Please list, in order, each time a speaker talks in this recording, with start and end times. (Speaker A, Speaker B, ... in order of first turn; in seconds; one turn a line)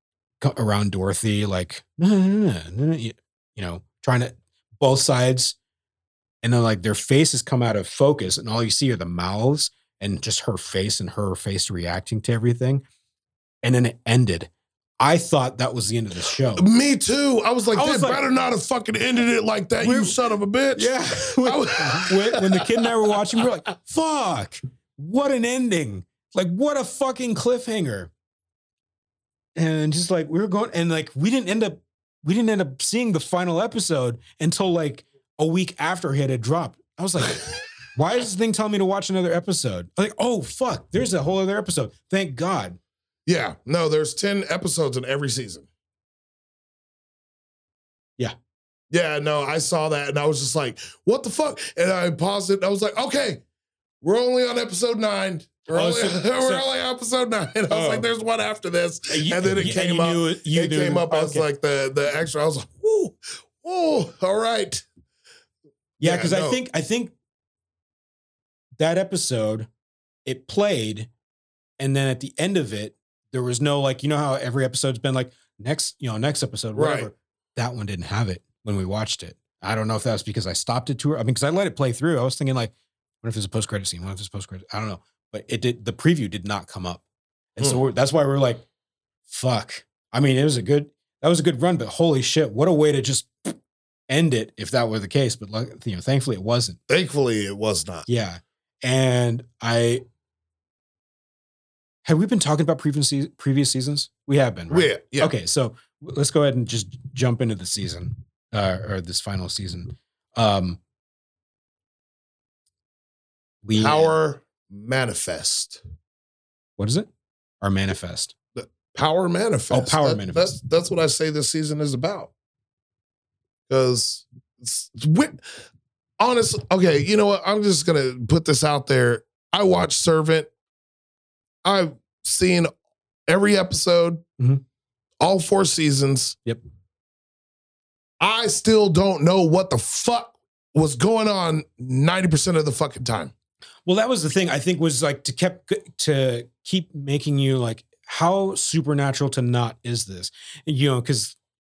Speaker A: 0.4-5.5
Speaker A: 6.4-12.8
Speaker A: 13.6-16.7
Speaker B: 16.6-22.8
Speaker A: 17.7-18.2
Speaker A: 19.8-20.1
Speaker A: 20.7-28.1
Speaker A: 29.6-42.8
Speaker B: 43.2-45.7
Speaker B: 48.9-53.4
Speaker B: 54.0-64.8
Speaker A: 55.7-56.6
Speaker A: 57.7-58.1
Speaker A: 59.1-61.5
Speaker A: 66.0-67.1
Speaker B: 66.0-66.6
Speaker A: 68.8-69.7
Speaker A: 70.2-71.1
Speaker A: 71.8-87.0
Speaker B: 76.7-77.1
Speaker A: 87.5-88.6
Speaker A: 89.3-93.5
Speaker A: 94.1-96.8
Speaker B: 96.9-98.0
Speaker A: 98.1-100.0
Speaker A: 102.0-110.8
Speaker B: 104.7-105.3
Speaker A: 113.6-114.1
Speaker B: 113.7-115.8
Speaker A: 116.8-117.1
Speaker A: 117.6-118.3
Speaker B: 118.5-122.3
Speaker A: 119.7-120.5
Speaker B: 123.7-125.5
Speaker B: 126.2-130.5
Speaker B: 131.6-132.7
Speaker B: 133.3-134.2
Speaker B: 135.2-136.4
Speaker B: 138.2-143.3
Speaker A: 143.8-151.3